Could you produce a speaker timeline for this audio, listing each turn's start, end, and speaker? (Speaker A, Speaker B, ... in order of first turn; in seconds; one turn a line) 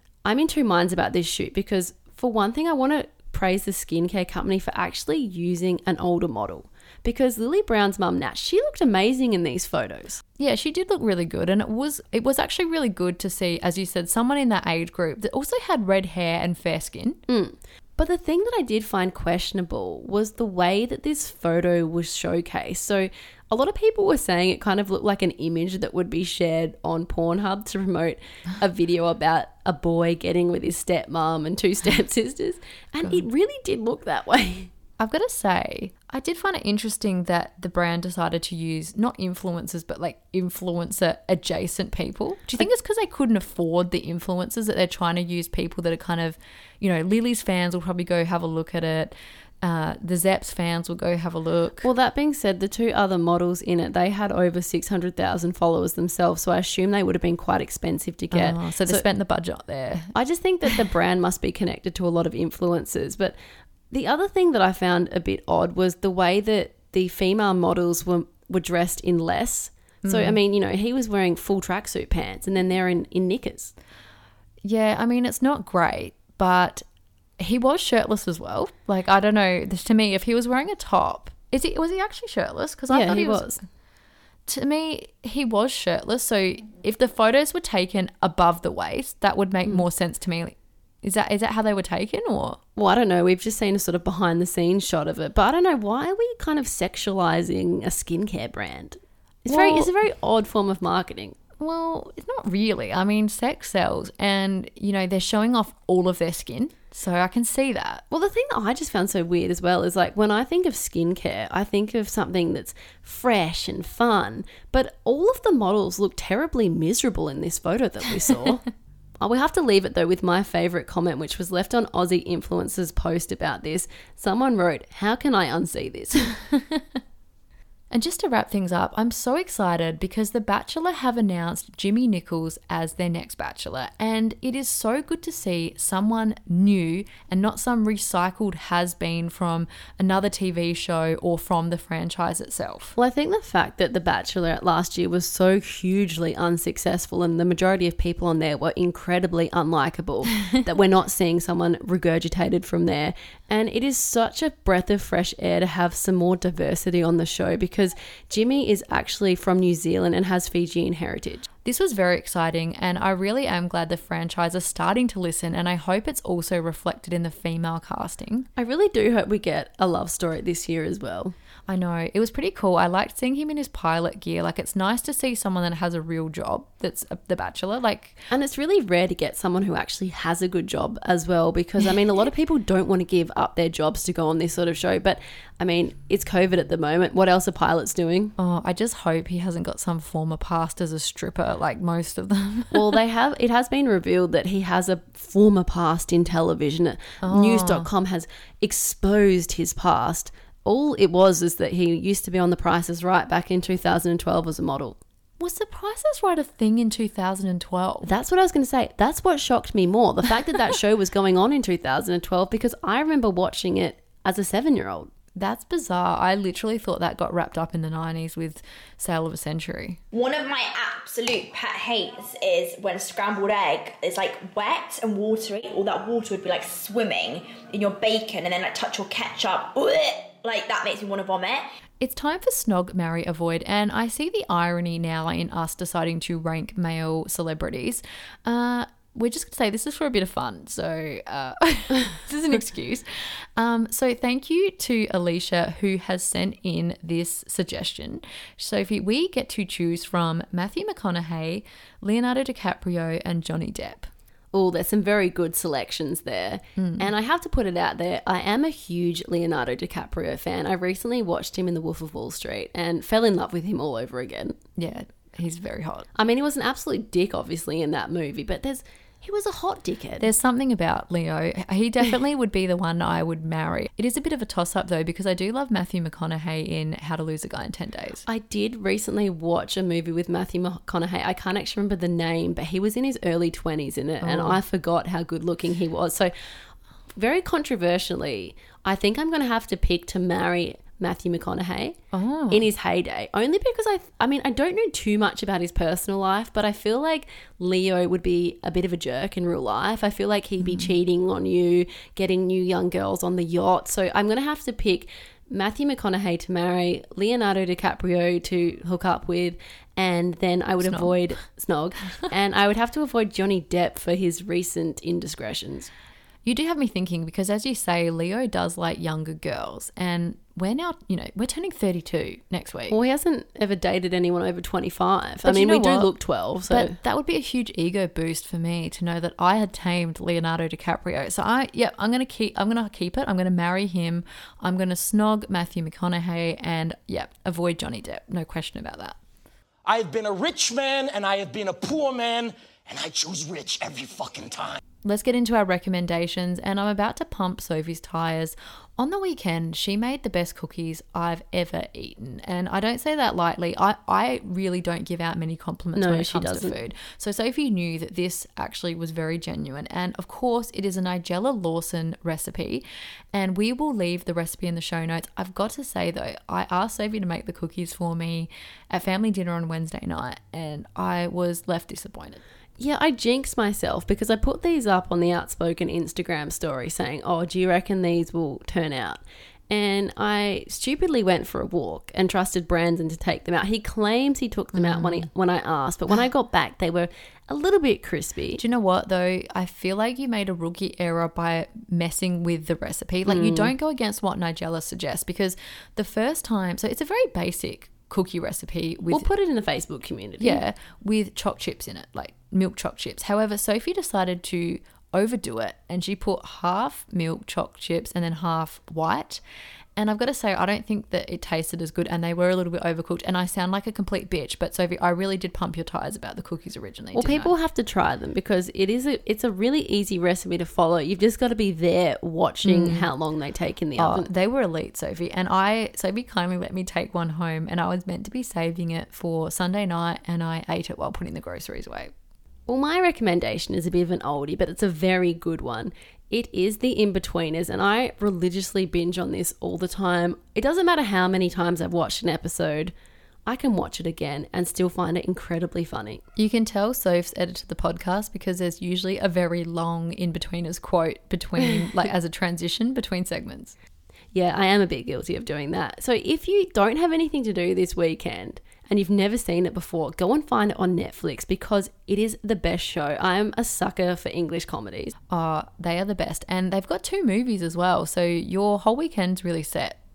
Speaker A: 0.2-10.2
Speaker B: 10.4-17.2
Speaker A: 17.3-34.7
Speaker B: 35.0-51.9
Speaker A: 51.8-59.0
Speaker B: 58.3-60.1
Speaker A: 60.1-63.3
Speaker A: 63.9-73.7
Speaker B: 70.0-70.4
Speaker B: 74.6-76.8
Speaker B: 77.4-83.6
Speaker A: 82.9-83.6
Speaker B: 84.5-92.6
Speaker A: 92.8-101.3
Speaker B: 99.5-99.9
Speaker B: 101.6-108.0
Speaker A: 108.1-118.6
Speaker A: 119.2-126.3
Speaker B: 126.5-126.8
Speaker B: 127.9-142.9
Speaker A: 142.9-161.5
Speaker B: 161.6-168.5
Speaker A: 168.6-171.3
Speaker B: 171.7-178.2
Speaker A: 178.3-188.3
Speaker B: 188.4-192.9
Speaker A: 192.7-205.0
Speaker B: 197.2-197.9
Speaker B: 205.4-208.1
Speaker A: 208.0-215.1
Speaker B: 215.3-220.0
Speaker C: 220.1-231.7
Speaker B: 232.0-254.1
Speaker A: 254.5-264.6
Speaker B: 256.8-257.1
Speaker B: 264.8-266.1
Speaker A: 266.1-270.3
Speaker B: 270.2-278.2
Speaker A: 278.3-286.3
Speaker B: 284.2-284.6
Speaker A: 287.1-292.0
Speaker B: 292.1-292.6
Speaker A: 292.5-315.9
Speaker B: 300.6-300.9
Speaker B: 310.8-311.1
Speaker B: 316.4-323.0
Speaker A: 322.9-326.9
Speaker B: 325.4-326.1
Speaker B: 326.7-339.2
Speaker D: 339.9-344.8
Speaker B: 345.0-372.4
Speaker A: 355.9-356.7
Speaker A: 372.8-388.6
Speaker B: 384.7-385.3
Speaker B: 388.6-399.3
Speaker A: 393.3-393.7
Speaker A: 399.1-400.6
Speaker B: 400.4-409.4
Speaker B: 409.9-417.5
Speaker A: 417.1-424.3
Speaker B: 422.6-423.1
Speaker B: 424.0-432.1
Speaker A: 432.7-442.9
Speaker A: 443.4-446.2
Speaker B: 446.4-453.8
Speaker A: 454.3-465.1
Speaker B: 465.3-470.0